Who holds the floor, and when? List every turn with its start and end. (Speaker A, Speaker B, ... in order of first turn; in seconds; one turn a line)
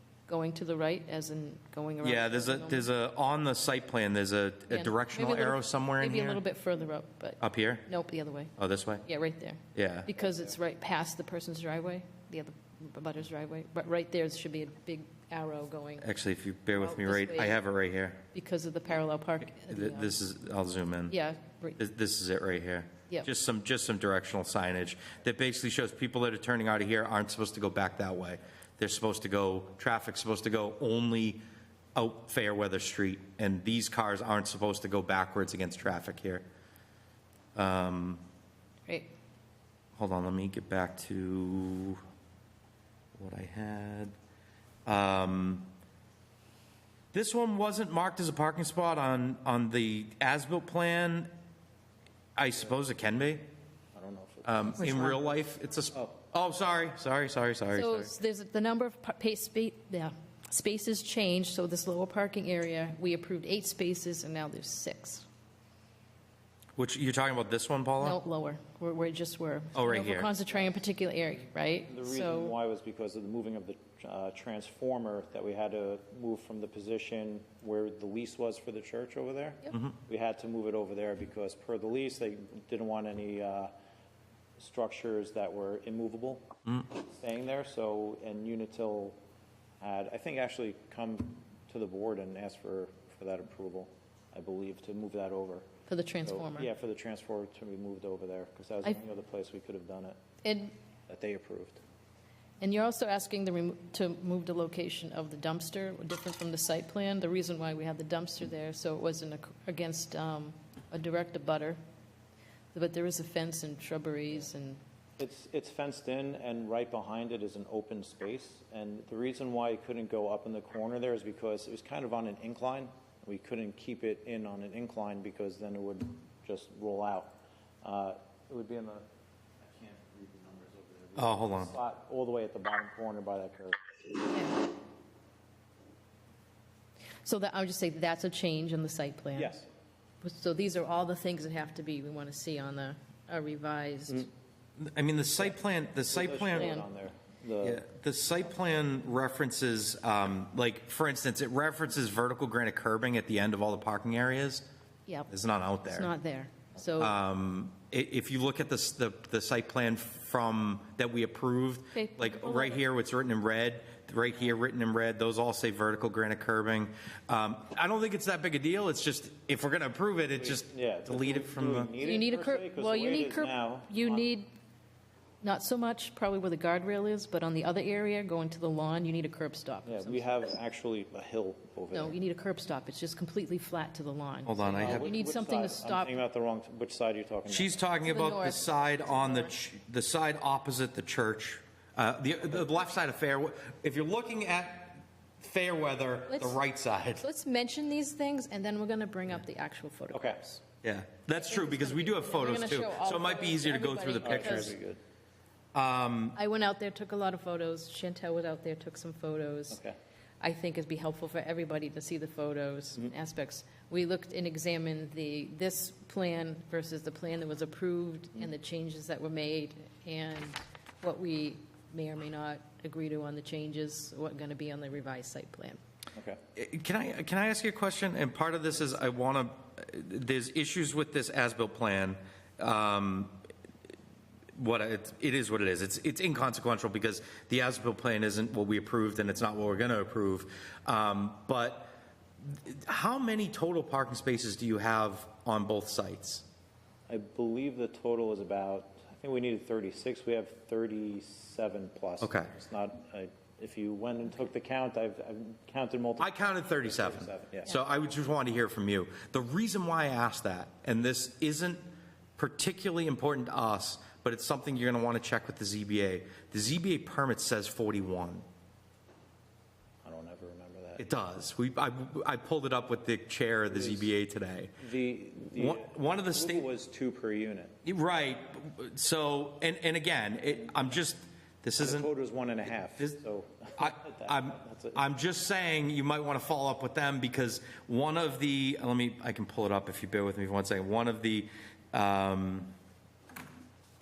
Speaker A: 0.3-2.9
Speaker B: 2.0-6.4
Speaker A: 4.7-16.1
Speaker B: 7.4-7.8
Speaker B: 8.6-9.0
Speaker B: 9.7-10.1
Speaker B: 16.0-18.2
Speaker A: 16.7-17.6
Speaker A: 18.3-20.2
Speaker B: 19.6-21.1
Speaker A: 21.1-21.8
Speaker B: 21.8-31.4
Speaker B: 31.9-36.4
Speaker B: 37.5-38.2
Speaker B: 40.0-42.0
Speaker B: 43.1-44.1
Speaker B: 44.9-45.7
Speaker B: 47.1-51.3
Speaker B: 52.4-53.4
Speaker C: 53.9-55.4
Speaker B: 54.4-58.1
Speaker A: 57.7-65.3
Speaker B: 66.8-68.2
Speaker A: 68.0-72.5
Speaker B: 69.7-70.3
Speaker C: 71.9-83.7
Speaker B: 79.7-80.0
Speaker C: 84.6-89.2
Speaker C: 89.8-95.7
Speaker A: 95.9-96.7
Speaker C: 96.2-100.2
Speaker A: 100.4-100.7
Speaker C: 101.1-101.8
Speaker A: 102.6-111.8
Speaker A: 112.7-114.8
Speaker C: 115.2-129.0
Speaker C: 129.6-133.8
Speaker B: 131.2-131.7
Speaker A: 134.3-134.6
Speaker A: 137.2-139.5
Speaker C: 139.3-139.7
Speaker A: 140.2-144.3
Speaker B: 144.8-146.7
Speaker C: 146.1-147.8
Speaker A: 146.5-146.8
Speaker B: 147.6-154.6
Speaker B: 155.3-156.1
Speaker A: 155.8-157.2
Speaker B: 157.0-171.9
Speaker A: 161.9-162.8
Speaker C: 170.4-174.3
Speaker A: 172.0-174.5
Speaker A: 175.4-180.3
Speaker C: 179.8-182.2
Speaker A: 181.9-186.2
Speaker B: 184.4-185.1
Speaker C: 184.8-187.8
Speaker B: 187.5-197.2
Speaker A: 188.0-189.5
Speaker A: 196.3-196.6
Speaker A: 197.2-200.6
Speaker C: 200.1-200.4
Speaker B: 200.8-204.8
Speaker A: 201.3-204.7
Speaker C: 204.2-205.0
Speaker B: 205.7-206.4
Speaker A: 206.3-209.8
Speaker A: 210.4-225.8
Speaker C: 226.1-226.4
Speaker B: 226.6-233.3
Speaker B: 234.6-241.9
Speaker B: 242.4-246.4
Speaker C: 247.1-257.7
Speaker B: 252.2-252.5
Speaker B: 256.2-261.8
Speaker B: 262.4-268.4
Speaker C: 270.0-271.0
Speaker B: 271.0-274.7
Speaker C: 273.7-274.1
Speaker C: 274.8-277.8
Speaker B: 275.5-276.6
Speaker B: 277.8-282.1
Speaker C: 281.8-285.0
Speaker B: 282.8-283.2
Speaker B: 283.8-292.7